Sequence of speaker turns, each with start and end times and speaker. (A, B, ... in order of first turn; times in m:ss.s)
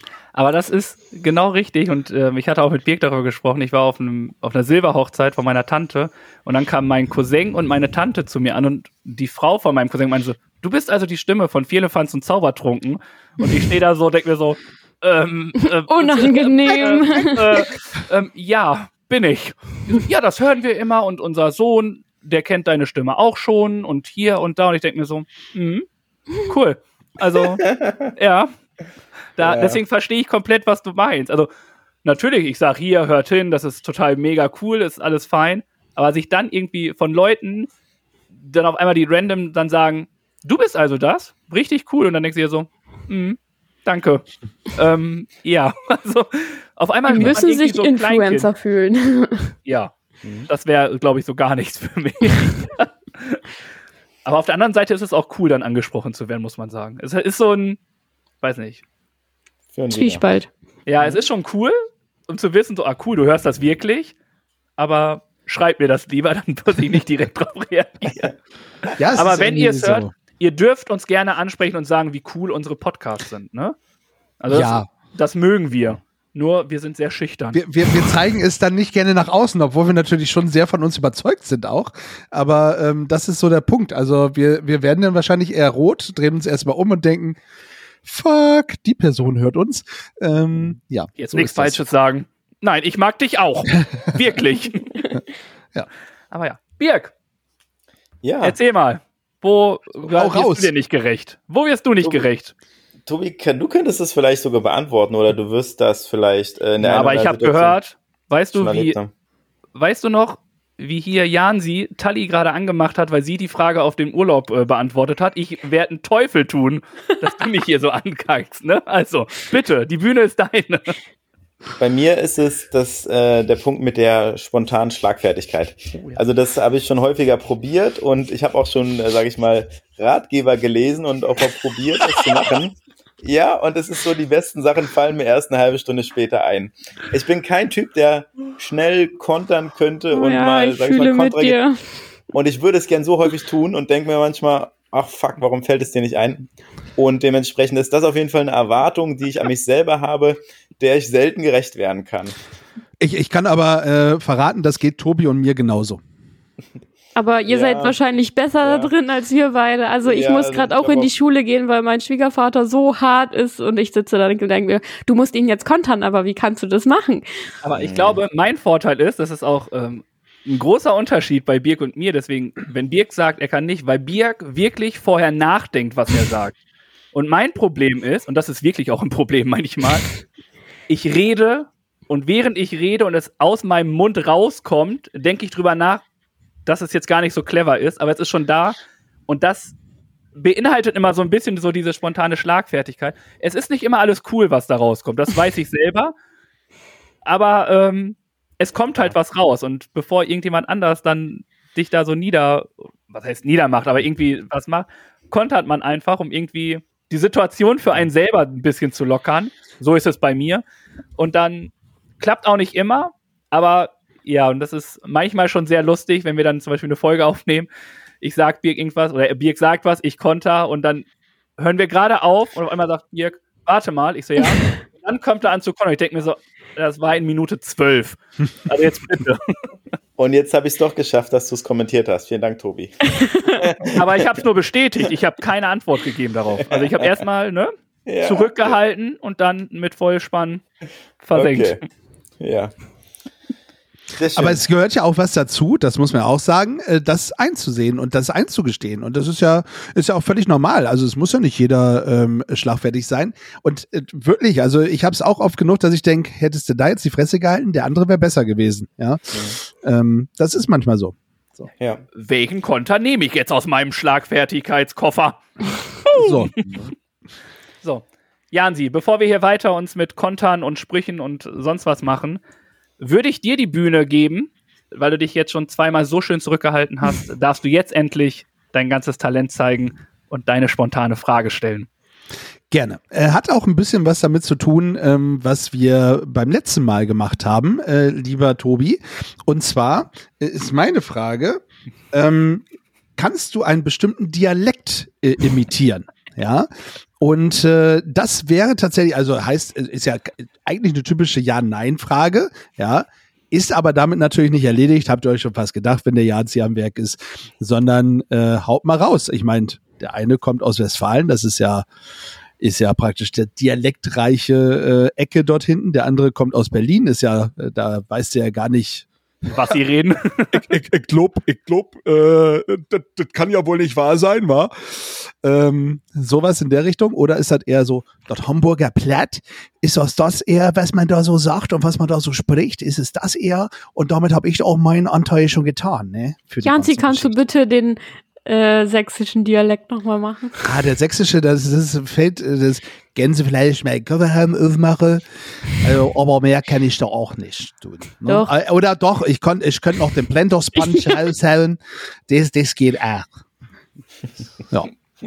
0:00.3-0:25.8 A
0:15.9-0:17.6 B
0:26.4-0:28.5 A
0:27.6-0:28.0 C
0:29.4-0:31.5 A
0:29.4-0:29.8 C
0:32.0-0:37.7 A
0:38.4-0:44.2 A
0:44.7-0:48.5 A
0:47.1-0:49.5 B
0:49.6-0:49.9 A
0:50.2-0:50.5 C
0:50.5-0:53.4 A
0:54.2-0:57.8 A
0:58.4-0:58.8 A
0:59.7-1:00.2 C
0:59.9-1:00.5 B
1:00.8-1:01.8 A
1:02.3-1:04.1 A
1:04.8-1:08.3 A
1:09.0-1:10.1 D
1:09.1-1:13.7 A
1:14.4-1:18.0 A
1:14.5-1:14.8 D
1:17.5-1:27.4 D
1:28.0-1:31.8 D
1:31.2-1:35.0 A
1:36.3-1:37.1 A
1:38.2-1:38.6 C
1:38.4-1:42.5 A
1:40.1-1:40.7 D
1:43.0-1:47.8 C
1:46.8-1:48.9 A
1:48.5-1:49.1 C
1:49.7-2:01.0 A
2:01.8-2:21.6 C
2:20.1-2:21.8 B
2:22.3-2:32.4 C
2:33.0-2:36.0 D
2:37.1-2:47.2 B
2:37.5-2:38.0 C
2:38.6-2:38.9 C
2:40.0-2:41.1 C
2:47.6-2:56.5 A
2:47.8-2:48.2 C
2:57.1-3:00.1 A
3:00.9-3:06.0 A
3:06.6-3:08.8 A
3:09.3-3:09.7 A
3:10.3-3:16.1 A
3:17.2-3:30.6 A
3:31.2-3:37.7 A
3:38.2-3:41.0 A
3:41.6-3:49.5 A
3:50.2-3:54.2 C
3:53.9-4:00.6 A
3:56.7-3:57.1 C
3:58.1-3:58.8 C
4:01.2-4:01.8 A
4:01.3-4:01.8 C
4:02.4-4:02.7 C
4:04.1-4:04.6 C
4:04.4-4:21.7 D
4:19.3-4:19.6 C
4:21.8-4:22.0 C
4:22.1-4:26.8 A
4:26.1-4:26.5 D
4:27.8-4:32.4 A
4:33.0-4:41.9 A
4:42.7-4:52.6 D
4:53.2-4:56.7 D
4:57.2-5:11.8 D
5:12.6-5:19.1 D
5:19.5-5:20.7 A
5:20.5-5:37.3 D
5:36.6-5:40.7 B
5:40.6-5:53.3 D
5:48.2-5:48.5 B